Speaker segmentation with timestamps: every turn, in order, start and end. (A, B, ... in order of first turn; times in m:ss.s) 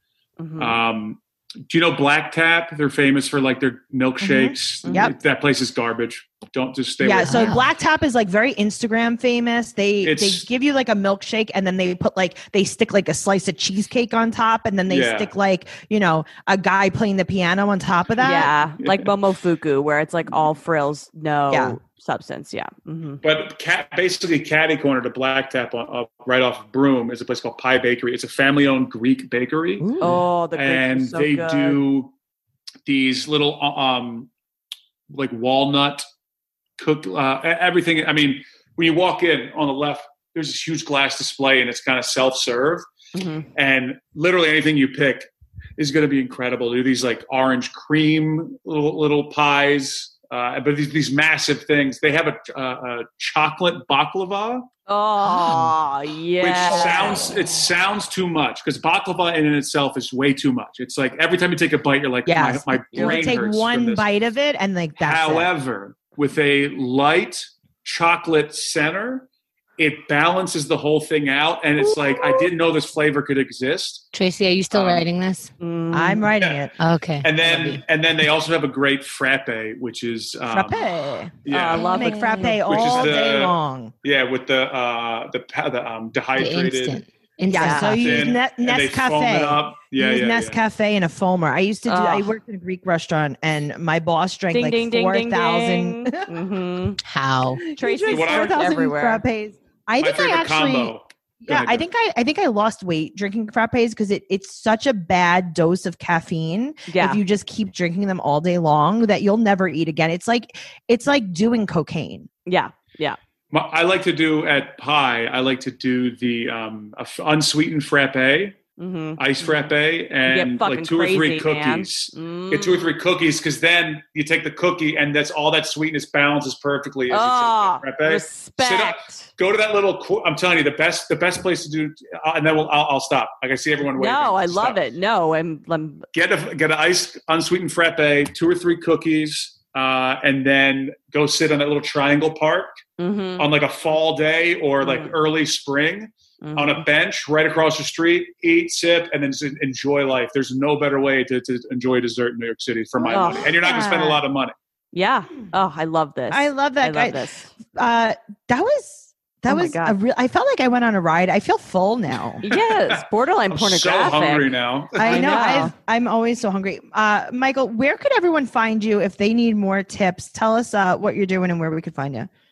0:00.4-0:00.8 A
0:00.6-0:07.7 B
0:04.2-0:05.1 C
0:04.8-0:05.1 A
0:07.0-0:18.5 C
0:07.1-0:07.6 D
0:10.0-0:10.5 B
0:14.9-0:15.3 B
0:18.2-0:23.2 A
0:18.8-0:19.1 B
0:21.5-0:21.8 C
0:23.2-0:30.0 B
0:29.8-0:30.2 C
0:30.0-0:31.8 A
0:30.5-0:32.1 B
0:32.9-0:34.3 B
0:35.1-0:36.0 B
0:36.8-0:42.9 B
0:43.2-0:43.5 A
0:43.6-0:54.7 B
0:54.9-0:57.3 A
0:56.4-1:04.1 B
1:02.3-1:05.5 C
1:02.9-1:03.2 A
1:05.0-1:09.3 B
1:09.8-1:14.0 B
1:11.9-1:12.4 C
1:14.1-1:15.5 D
1:14.7-1:15.0 B
1:15.6-1:16.2 A
1:15.9-1:16.7 C
1:16.4-1:16.7 B
1:16.8-1:17.8 D
1:17.2-1:21.9 B
1:20.5-1:23.9 C
1:21.5-1:23.1 A
1:21.8-1:22.6 D
1:22.6-1:27.0 B
1:26.4-1:28.3 D
1:27.5-1:36.3 C
1:27.5-1:28.0 A
1:27.9-1:30.6 B
1:31.9-1:32.3 A
1:34.5-1:37.0 A
1:37.0-1:37.6 D
1:37.8-1:52.3 C
1:37.8-1:39.2 A
1:38.1-1:38.7 B
1:40.0-1:41.8 B
1:46.9-1:47.2 A
1:52.5-1:53.2 A
1:53.5-1:58.6 B
1:58.8-1:59.5 A
1:59.2-2:14.8 B
2:00.3-2:03.0 A
2:07.1-2:09.3 A
2:14.0-2:16.1 A
2:16.1-2:22.8 B
2:23.0-2:23.5 A
2:23.4-2:34.5 B
2:24.8-2:25.1 A
2:26.4-2:26.8 A
2:33.0-2:33.9 C
2:33.1-2:34.2 A
2:34.9-2:37.5 A
2:36.3-2:37.2 C
2:37.7-2:42.4 C
2:39.5-2:40.0 A
2:42.4-2:44.5 A
2:42.5-2:45.7 B
2:45.0-2:52.3 C
2:45.0-2:45.7 A